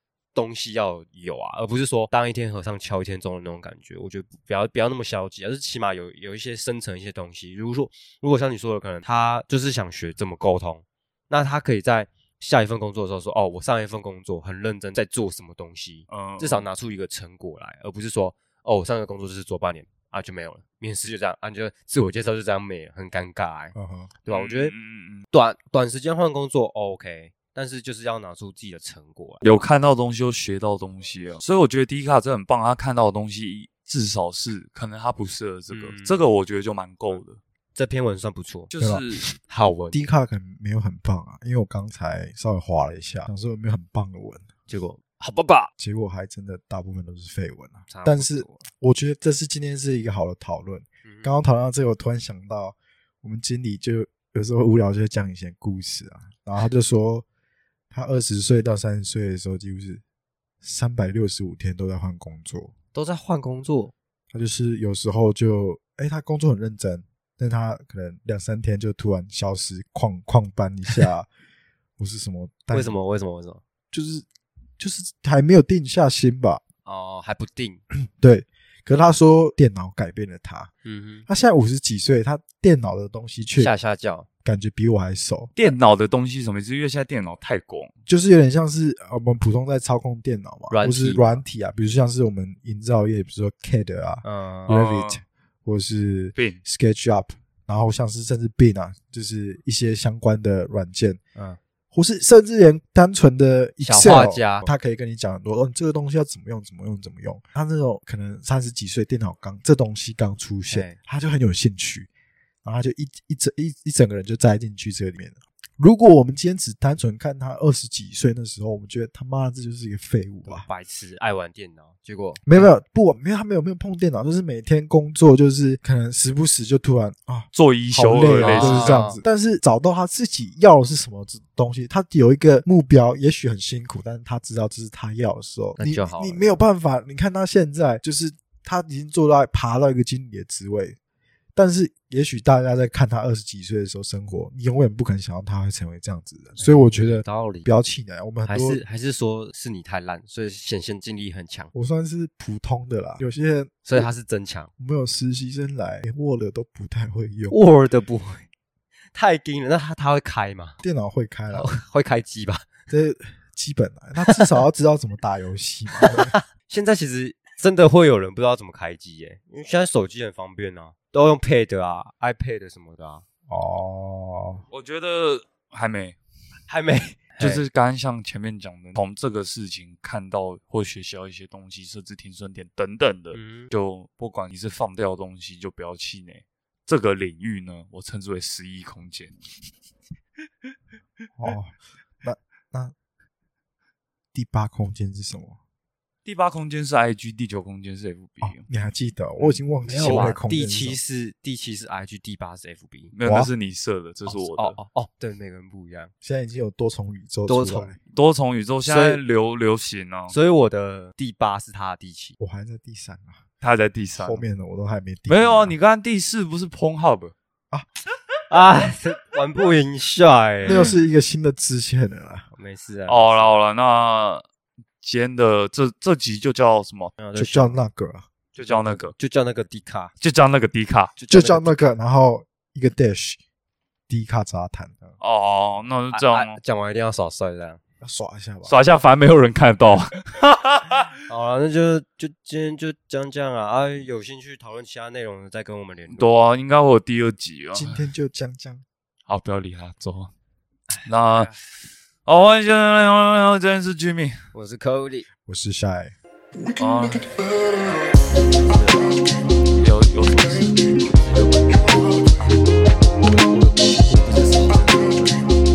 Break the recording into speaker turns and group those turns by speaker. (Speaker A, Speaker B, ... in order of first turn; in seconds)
Speaker A: 0.3-24.7, 25.3-29.4, 35.7-36.2, 37.7-38.7, 39.4-40.0, 44.7-45.7, 47.9-48.6, 51.0-51.3, 62.9-63.9, 72.7-73.6, 76.8-77.8, 80.8-81.3, 83.6-84.3, 90.7-91.4, 94.2-94.7, 103.8-104.7, 110.7-111.0, 120.5-122.7, 128.4-129.2, 135.8-136.6, 146.6-147.7, 148.5-151.7, 153.9-154.7, 157.5-158.4, 159.1-160.8, 161.5-162.7, 164.2-164.6, 165.9-173.2, 176.7-177.6, 183.3-183.7, 199.4-203.1, 204.3-206.1, 207.5-207.9, 208.8-209.2, 210.3-212.3, 218.5-220.9, 222.5-223.5, 227.2-227.8, 228.6-230.1, 231.2-231.8, 236.1-237.8, 241.3-246.3, 250.9-251.6, 254.5-255.3, 258.5-259.3, 261.2-262.6, 263.2-265.4
Speaker B: 16.1-16.6, 24.3-25.2, 29.4-37.4, 38.7-39.3, 85.5-87.9, 94.7-95.2, 96.3-96.6, 127.5-129.0, 174.7-176.2, 177.4-189.3, 196.2-198.6, 199.9-200.3, 203.1-204.8, 208.1-210.3, 213.6-214.4, 215.3-217.3, 223.1-224.4, 225.0-227.1, 228.5-229.1, 230.2-231.1, 235.2-236.6, 238.7-241.1, 246.1-248.0, 249.3-250.3, 251.0-251.5, 252.2-254.3, 256.8-257.3, 259.8-261.5
Speaker C: 23.7-24.1, 38.8-39.0, 39.9-44.5, 45.8-57.2, 57.9-60.0, 60.6-62.7, 64.3-71.3, 72.0-73.0, 73.9-74.2, 74.8-76.6, 77.9-80.7, 81.3-83.7, 84.4-85.5, 88.1-101.2, 101.9-112.1, 112.6-120.7, 122.5-141.0, 141.5-148.8, 151.7-154.1, 154.8-157.6, 160.8-161.7, 162.9-166.3, 173.5-174.6, 191.4-192.9, 194.3-195.6, 198.4-201.0, 203.2-203.5, 206.2-208.0, 212.4-213.4, 214.2-215.7, 220.6-222.5, 227.3-228.3, 231.3-233.4, 234.1-235.2, 238.0-238.7, 247.7-248.8, 255.4-256.1